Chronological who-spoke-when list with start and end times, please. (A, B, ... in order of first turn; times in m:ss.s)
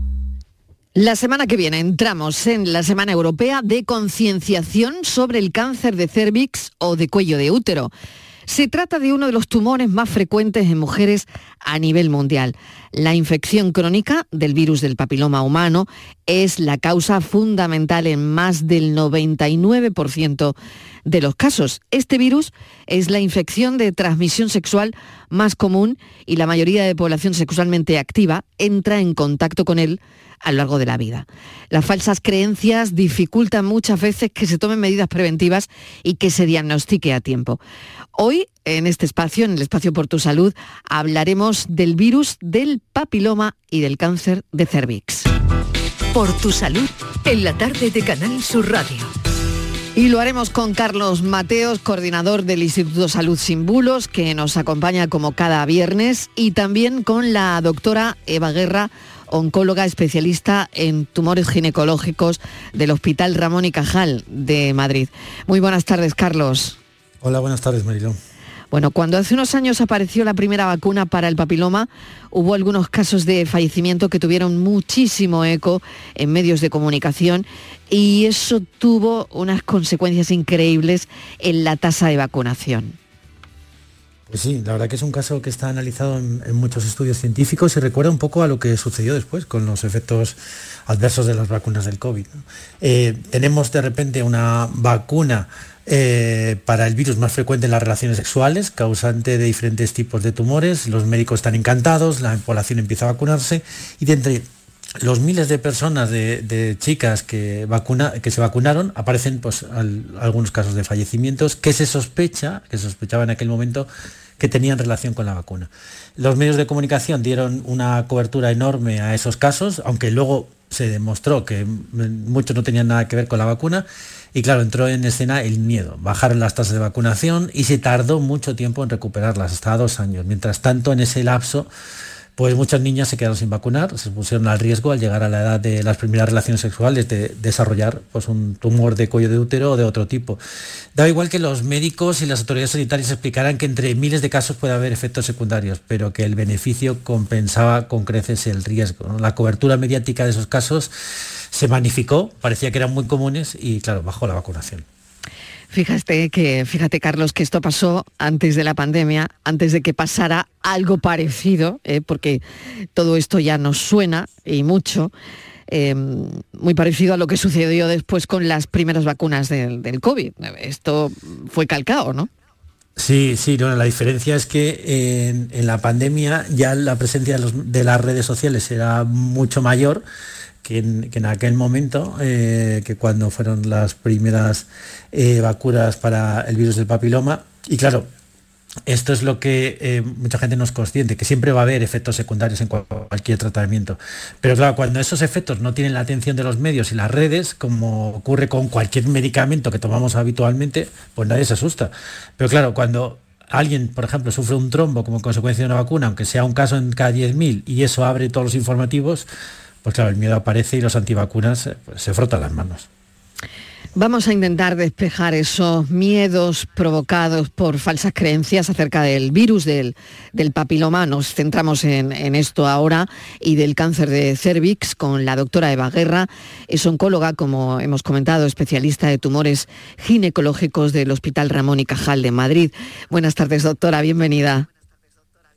0:00.9-0:07.9 A
0:08.4-0:37.6 A
0:38.1-0:45.3 A
0:46.1-0:49.0 B
0:49.9-1:06.8 A
1:07.2-1:08.2 C
1:08.7-1:23.0 A
1:24.3-1:30.4 C
1:30.9-1:44.4 C
1:45.0-1:53.8 C
1:54.4-2:03.8 C
2:04.3-2:11.6 C
2:12.4-2:20.4 C
2:21.0-2:30.9 C
2:31.5-2:34.8 C
2:35.7-2:45.1 A
2:45.7-2:52.3 A
2:53.0-3:00.0 C
3:00.6-3:08.0 C
3:08.9-3:21.7 C
3:22.4-3:29.2 C
3:29.8-3:32.8 C
3:33.9-3:54.7 A